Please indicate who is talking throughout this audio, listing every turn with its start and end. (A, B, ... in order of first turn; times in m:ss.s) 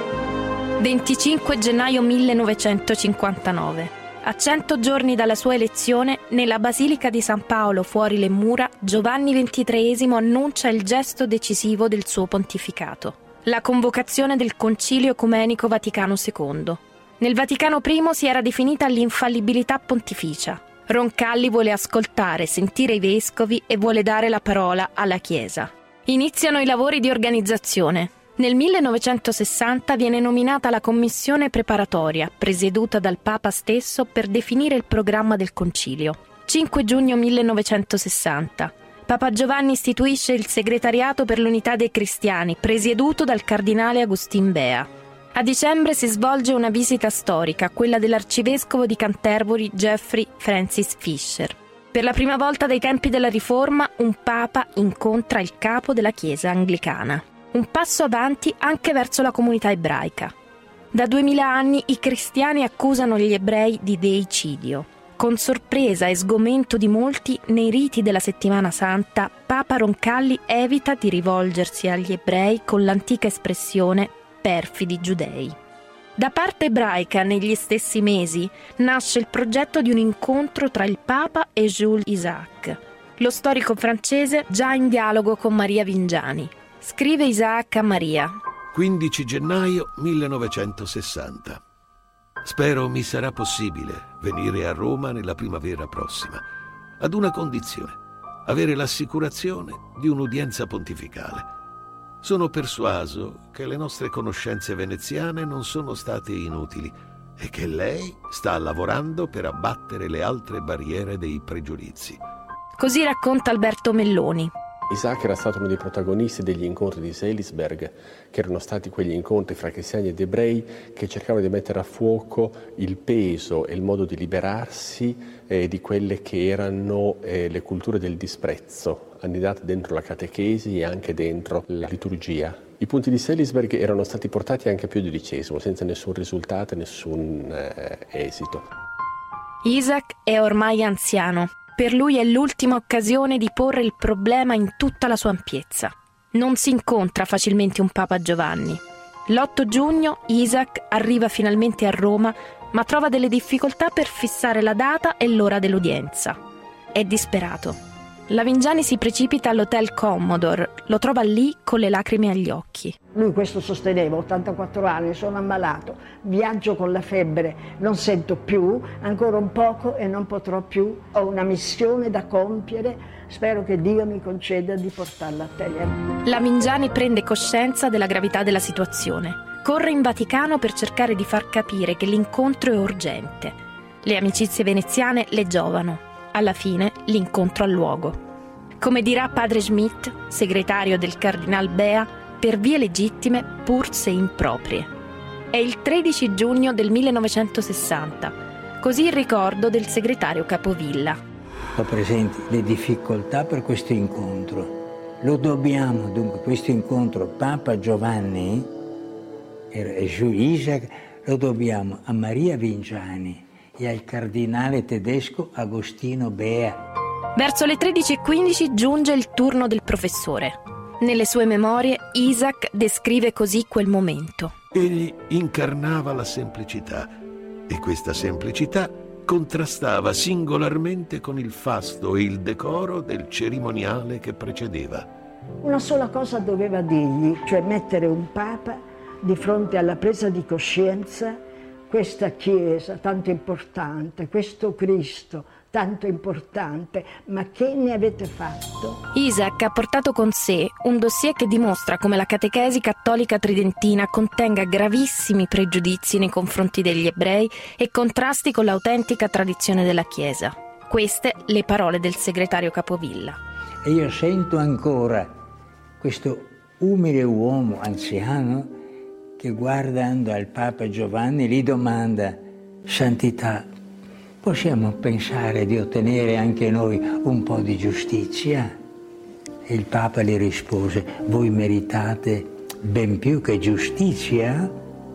0:00.8-1:00.3 A
1:00.9-1:15.6 A
1:16.2-1:28.4 A
1:28.7-1:31.6 B
1:32.4-1:36.4 B
1:37.0-1:41.5 B
1:42.2-1:52.2 B
1:52.8-1:54.5 A
1:54.9-2:18.7 C
2:19.6-2:36.4 A
2:36.9-2:37.8 A
2:38.3-2:43.0 A
2:43.1-2:56.0 D
2:56.2-3:08.2 A
3:08.8-3:14.9 A
3:15.5-3:21.2 A
3:21.8-3:28.7 E
3:29.7-3:36.8 E
3:37.4-3:44.5 A
3:44.7-3:47.1 B
3:47.7-3:55.1 B
3:55.6-4:09.0 D
4:09.1-4:23.4 A
4:23.8-4:25.4 E
4:26.0-4:28.8 E
4:29.4-4:33.7 E
4:34.4-4:38.7 E
4:39.7-4:44.7 E